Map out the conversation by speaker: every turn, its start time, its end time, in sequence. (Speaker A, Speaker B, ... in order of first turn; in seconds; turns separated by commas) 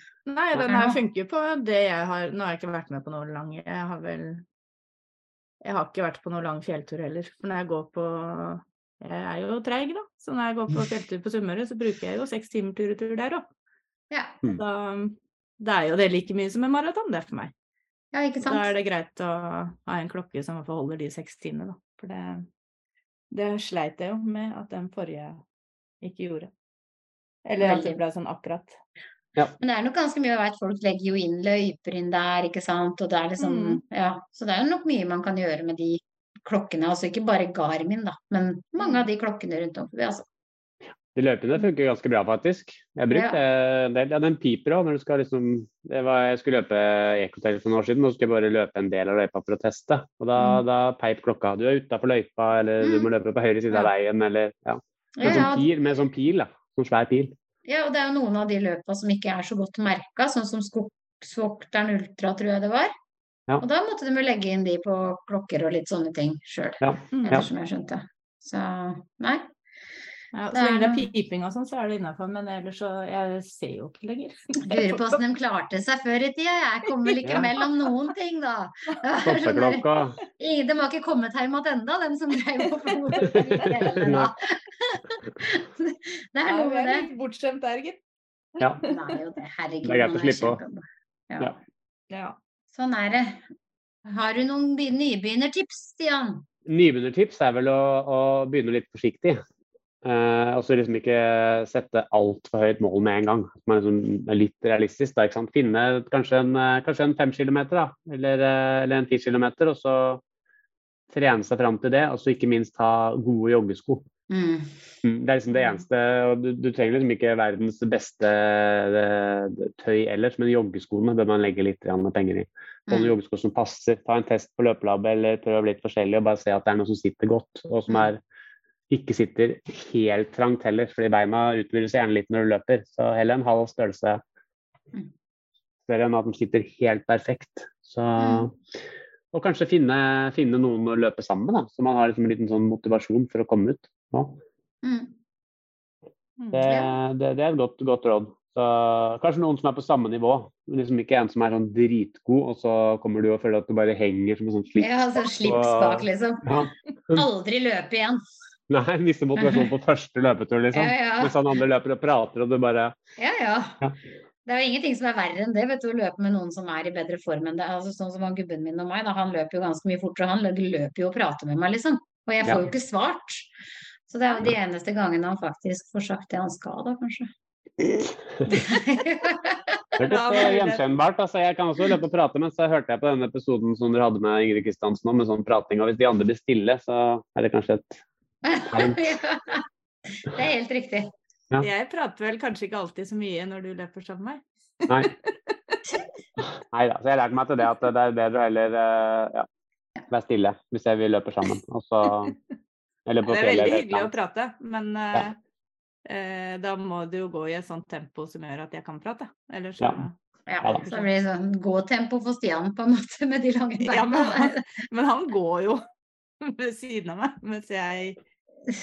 Speaker A: 0.3-4.4, Speaker B: 0.6-1.0, Speaker A: 5.6-13.5, Speaker B: 14.1-14.4, Speaker A: 14.6-17.5, Speaker B: 18.1-18.7, Speaker A: 18.4-22.5, Speaker A: 23.3-25.4, Speaker A: 26.0-26.5, Speaker A: 27.5-28.8, Speaker B: 27.6-28.0, Speaker B: 29.6-40.2, Speaker A: 33.4-33.8, Speaker A: 38.8-39.1, Speaker C: 41.1-57.4, Speaker B: 43.1-43.4, Speaker B: 50.4-50.6, Speaker B: 52.8-53.1, Speaker B: 55.2-55.7, Speaker B: 57.7-62.9, Speaker B: 63.6-69.5, Speaker C: 66.8-67.5, Speaker A: 67.1-67.5, Speaker A: 70.3-75.2, Speaker B: 70.5-71.1, Speaker B: 74.6-79.8, Speaker C: 79.2-80.2, Speaker B: 80.4-87.1, Speaker A: 82.8-83.3, Speaker C: 83.3-84.3, Speaker A: 86.5-88.0, Speaker A: 88.6-89.2, Speaker B: 88.8-91.6, Speaker C: 89.8-90.6, Speaker A: 92.1-92.4, Speaker B: 92.7-93.4, Speaker B: 94.0-96.5, Speaker C: 96.7-99.4, Speaker C: 100.0-110.2, Speaker C: 111.1-114.1, Speaker B: 114.3-114.7, Speaker C: 115.0-128.2, Speaker B: 122.9-123.2, Speaker C: 128.9-134.2, Speaker C: 135.9-138.6, Speaker B: 138.2-138.5, Speaker C: 139.3-144.4, Speaker B: 144.8-145.2, Speaker A: 146.4-146.7, Speaker C: 146.5-157.3, Speaker B: 146.6-147.0, Speaker B: 154.8-158.2, Speaker C: 158.7-163.0, Speaker B: 159.4-159.7, Speaker B: 160.7-161.4, Speaker B: 163.2-163.8, Speaker B: 164.5-173.5, Speaker C: 172.4-172.7, Speaker B: 174.1-177.3, Speaker B: 178.5-179.8, Speaker C: 180.0-188.0, Speaker A: 180.0-180.9, Speaker B: 188.4-189.7, Speaker C: 188.7-189.1, Speaker B: 190.2-191.1, Speaker A: 191.6-195.8, Speaker C: 196.4-199.5, Speaker C: 200.1-202.4, Speaker C: 203.1-204.1, Speaker A: 203.2-205.4, Speaker A: 206.1-210.2, Speaker B: 210.5-214.6, Speaker A: 210.7-211.1, Speaker A: 213.8-215.8, Speaker A: 216.4-218.2